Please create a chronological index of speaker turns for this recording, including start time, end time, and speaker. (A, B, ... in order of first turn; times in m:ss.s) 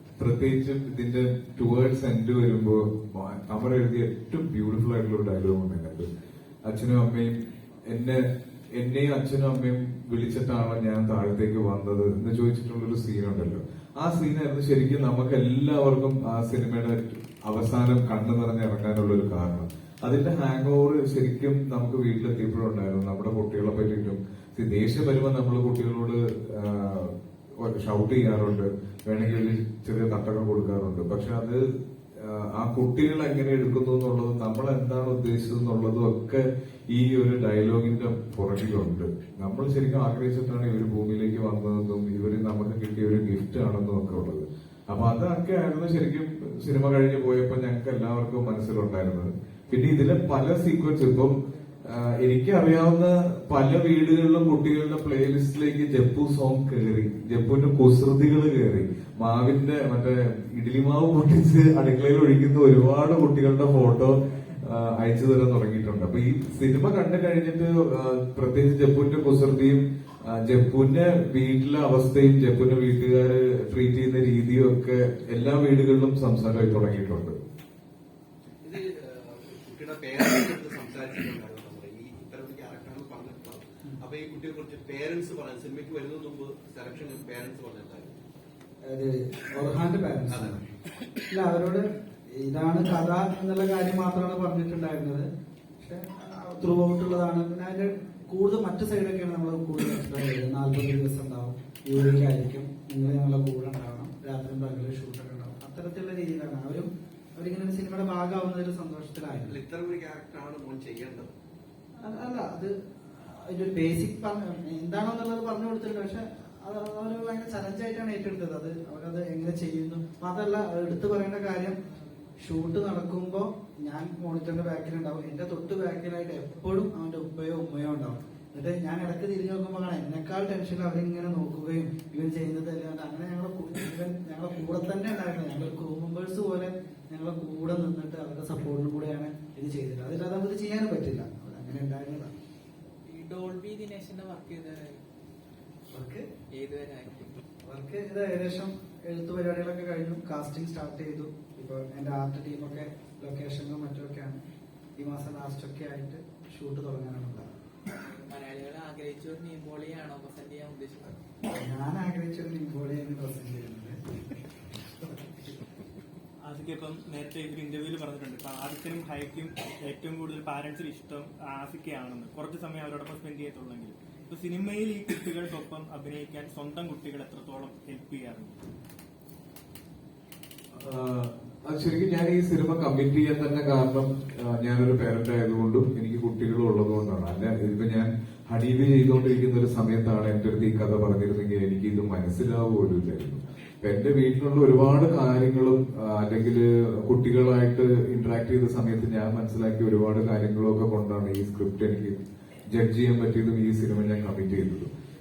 0:00.2-0:06.1 A
0:06.7-0:08.2 A
0:08.8-1:17.4 A
1:18.6-1:28.2 B
1:28.9-1:30.6 C
1:30.3-1:30.6 B
1:31.3-1:31.8 C
1:32.4-1:35.3 C
1:35.8-1:49.6 C
1:49.4-1:51.3 B
1:52.0-2:01.8 C
2:02.4-2:22.3 C
2:23.1-2:25.0 D
2:25.9-2:26.2 C
2:26.4-2:27.4 D
2:27.6-2:34.4 C
2:35.0-2:37.5 C
2:38.0-2:41.2 D
2:41.5-2:44.0 C
2:46.5-2:58.6 E
3:00.8-3:22.2 A
3:22.7-3:24.9 A